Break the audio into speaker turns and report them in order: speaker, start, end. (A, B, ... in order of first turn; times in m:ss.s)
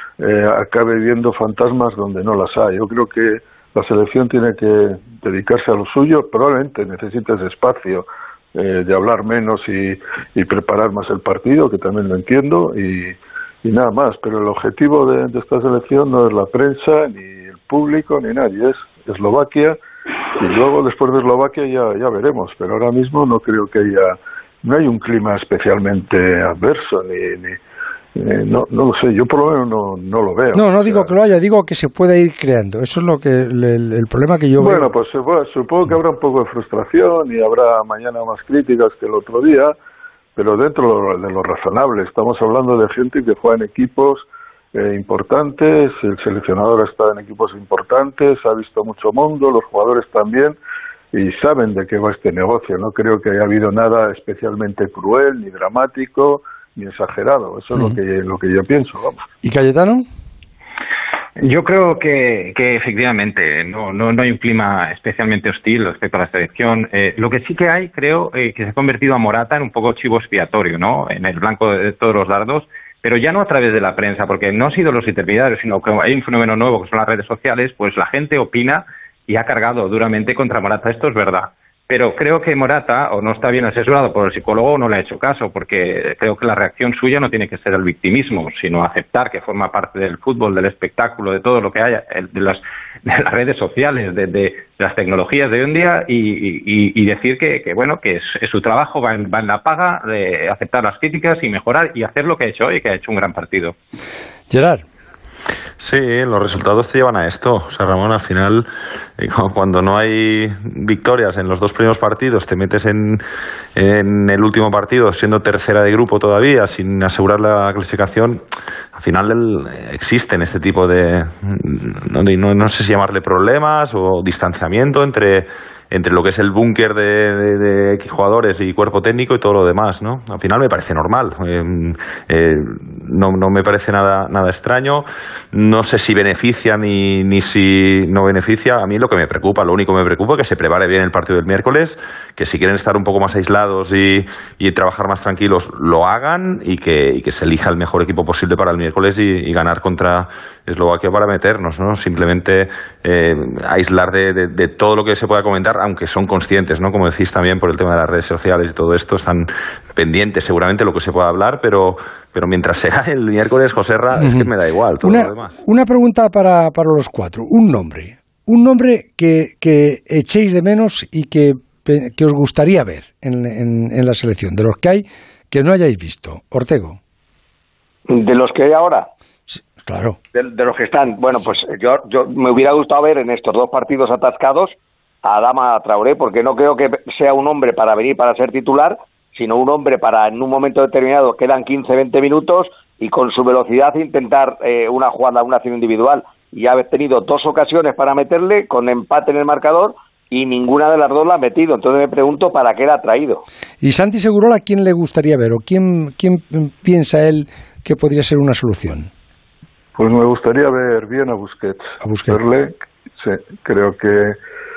0:00.2-0:19.8 A
0:20.4-0:27.6 A
0:28.2-0:31.2 A
0:30.5-0:34.9 B
0:34.6-0:39.7 A
0:40.4-0:50.6 A
0:51.1-0:59.2 A
0:59.4-1:00.1 B
1:01.4-1:43.8 C
1:44.5-1:44.8 B
1:45.8-1:48.7 D
1:49.2-1:53.2 D
1:53.8-1:58.4 D
1:59.0-2:45.5 D
2:44.2-2:44.5 B
2:45.0-2:57.0 B
2:58.1-2:59.1 E
2:59.5-3:00.2 B
3:00.4-3:23.4 E
3:23.8-3:29.1 B
3:30.0-3:34.4 A
3:32.0-3:32.4 B